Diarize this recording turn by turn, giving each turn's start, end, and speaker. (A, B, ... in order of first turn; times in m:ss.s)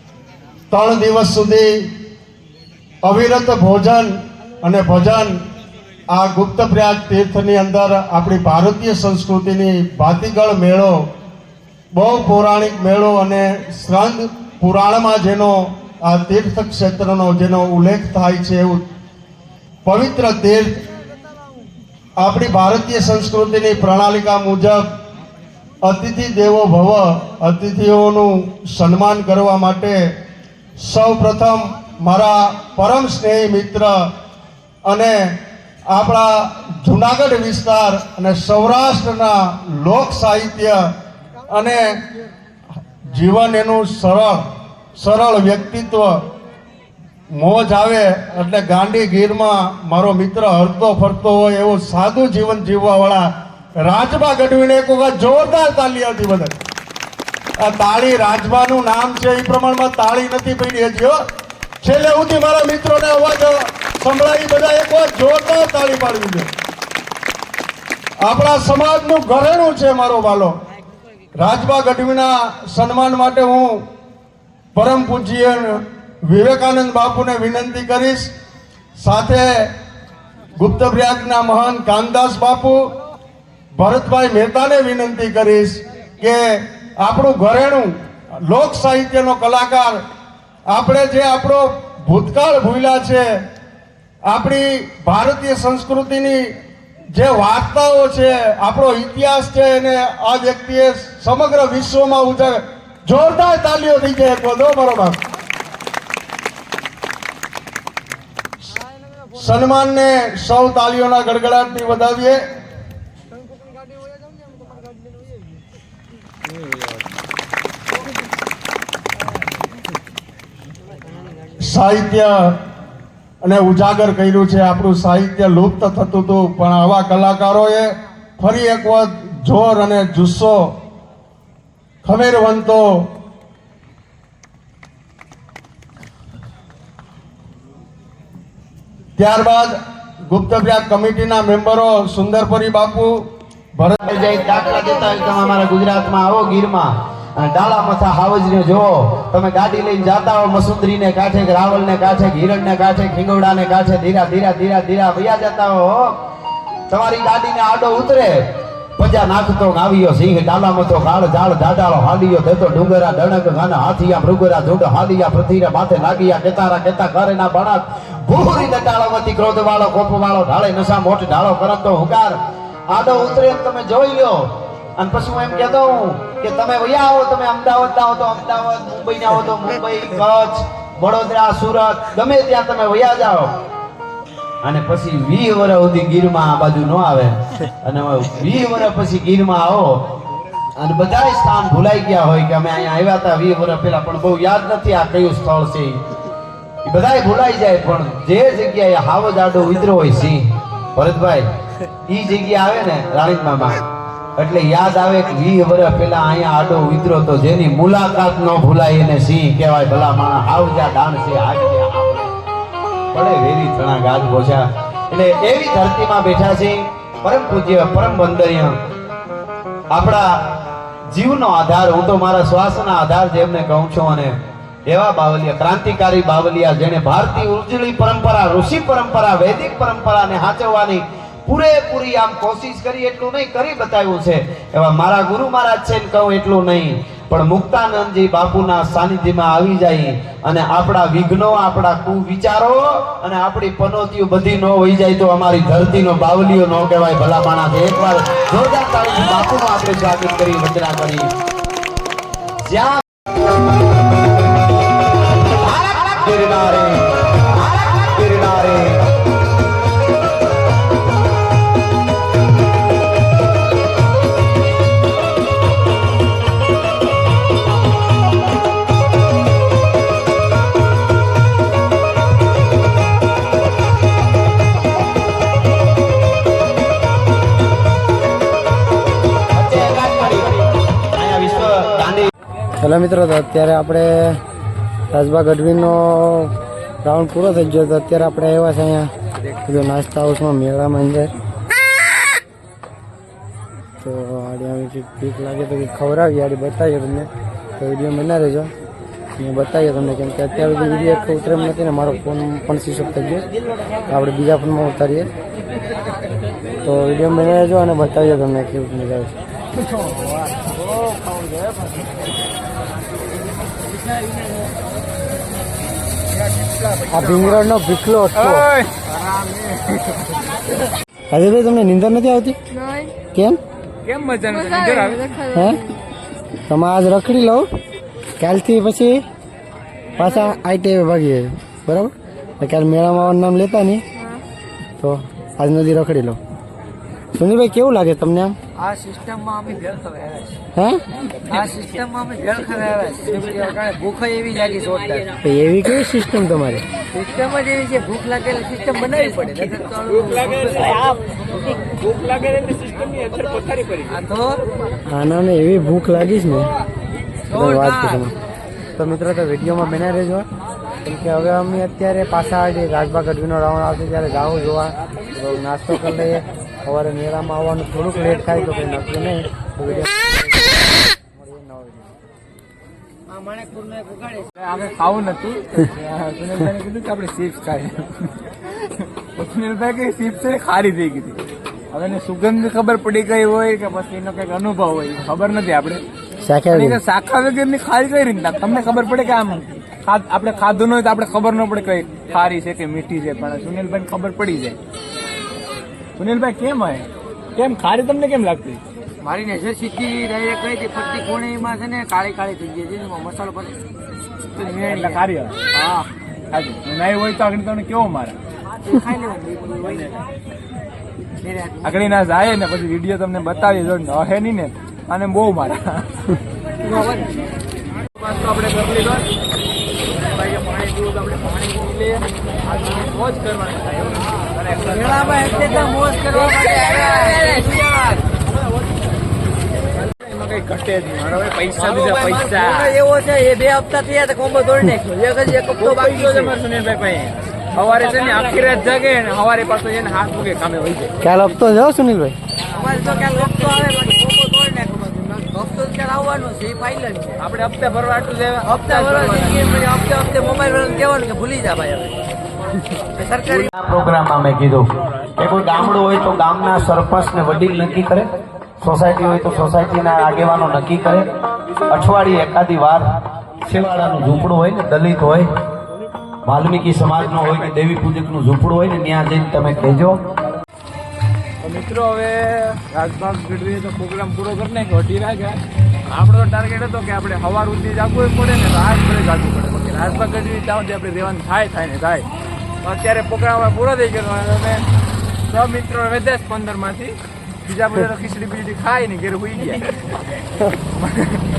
0:00.7-0:01.9 A
0:03.0-0:05.4 A
0:06.1-0:11.1 A
0:11.9-0:18.9 A
0:19.8-0:20.8 A
0:22.2-0:24.9 A
0:25.8-0:30.2 A
0:30.8-0:34.1 A
0:34.8-0:40.9 A
0:41.5-0:42.0 A
0:43.0-0:44.4 A
0:45.0-0:46.2 A
0:47.4-0:53.3 A
0:53.8-0:56.6 A
0:57.6-1:01.2 A
1:01.8-1:06.5 A
1:08.2-1:10.6 A
1:11.4-1:13.9 A
1:14.7-1:18.3 A
1:19.0-1:19.7 A
1:20.6-1:22.9 A
1:23.8-1:30.0 A
1:30.7-1:33.3 A
1:34.2-1:36.6 A
1:37.1-1:45.2 A
1:49.3-1:52.4 A
2:01.6-2:02.6 A
2:03.4-2:10.8 A
2:12.0-2:13.1 A
2:19.2-2:24.0 A
2:24.0-2:36.2 B
2:36.9-2:38.3 B
2:39.0-2:52.4 B
2:52.9-2:54.4 B
2:55.0-3:03.5 B
3:04.6-3:09.9 B
3:10.8-3:16.0 B
3:16.8-3:20.4 B
3:21.0-3:21.4 B
3:22.1-3:23.8 B
3:24.4-3:32.4 B
3:33.1-3:38.7 B
3:39.9-3:40.2 B
3:41.1-3:44.3 B
3:44.9-4:11.3 B
4:12.6-4:13.0 B
4:15.6-4:19.0 B
4:39.5-4:42.3 B
4:42.8-4:44.4 C
4:45.1-4:49.1 C
4:49.6-4:51.3 C
4:54.0-4:58.7 C
4:59.4-5:03.4 C
5:04.0-5:05.3 C
5:06.8-5:09.3 C
5:09.9-5:10.8 D
5:17.1-5:18.7 C
5:18.4-5:19.1 D
5:21.3-5:22.6 C
5:23.2-5:23.6 C
5:24.0-5:25.5 D
5:25.5-5:25.9 C
5:26.7-5:27.7 C
5:28.4-5:29.2 C
5:30.2-5:34.0 C
5:35.0-5:36.4 C
5:37.3-5:38.6 C
5:38.8-5:40.6 E
5:40.8-5:41.0 C
5:41.5-5:45.3 E
5:45.4-5:46.8 C
5:47.1-5:50.9 E
5:49.9-5:54.2 D
5:54.1-5:54.6 E
5:55.1-5:56.7 C
5:57.5-5:58.3 C
5:57.5-5:58.2 E
5:59.0-6:00.4 C
6:01.0-6:12.1 C
6:13.3-6:14.5 E
6:14.6-6:21.4 D
6:21.9-6:26.0 D
6:26.4-6:27.0 C
6:26.7-6:34.8 D
6:36.2-6:38.8 D
6:39.2-6:43.8 E
6:44.6-6:45.6 D
6:44.6-6:45.2 E
6:45.7-6:46.1 E
6:46.5-6:48.4 D
6:48.8-6:50.2 E
6:51.4-6:52.0 E
6:51.8-6:56.2 D
6:56.9-6:57.2 E
6:58.1-6:59.3 D
7:00.1-7:08.2 D
7:04.8-7:07.9 E
7:09.9-7:13.0 D
7:11.8-7:16.5 E
7:15.6-7:21.1 D
7:21.2-7:22.4 C
7:22.7-7:27.4 E
7:23.2-7:23.6 D
7:27.4-7:29.7 D
7:28.6-7:32.2 E
7:33.2-7:33.7 E
7:33.4-7:34.8 B
7:35.4-7:41.2 B
7:41.9-7:43.0 B
7:43.6-7:45.5 B
7:46.5-7:50.2 B
7:47.4-7:47.6 D
7:51.6-8:02.3 D
8:02.8-8:04.8 D
8:05.5-8:10.4 D
8:10.9-8:11.4 D